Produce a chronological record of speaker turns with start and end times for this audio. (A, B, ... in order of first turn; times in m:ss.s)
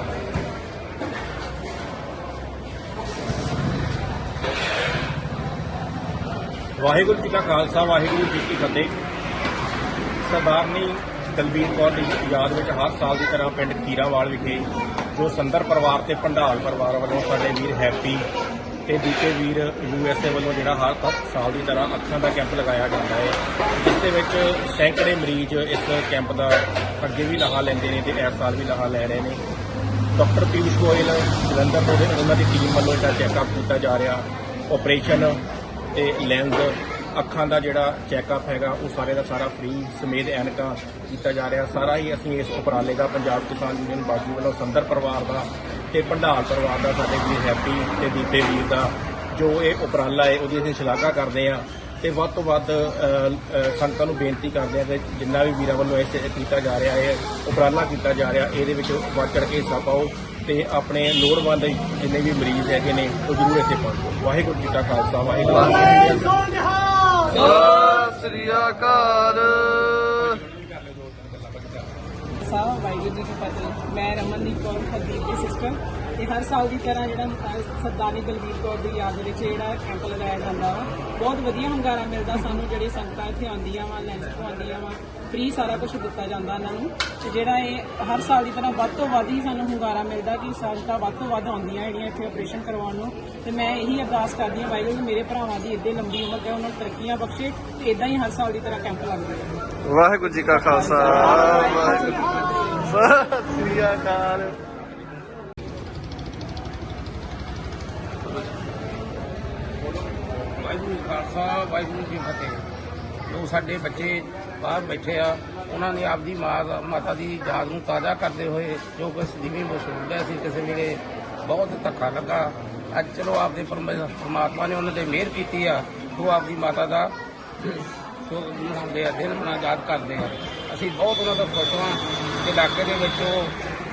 0:06.8-0:09.0 A
0:10.2-0:18.3 A
0:18.9-0:29.4 A
0:30.2-0:35.4 A
0:36.0-1:06.4 A
1:07.3-1:10.4 B
1:10.5-1:11.8 A
1:12.4-1:39.5 C
1:39.8-1:44.6 B
1:40.8-1:41.9 C
1:50.6-1:52.6 D
1:53.3-2:13.6 D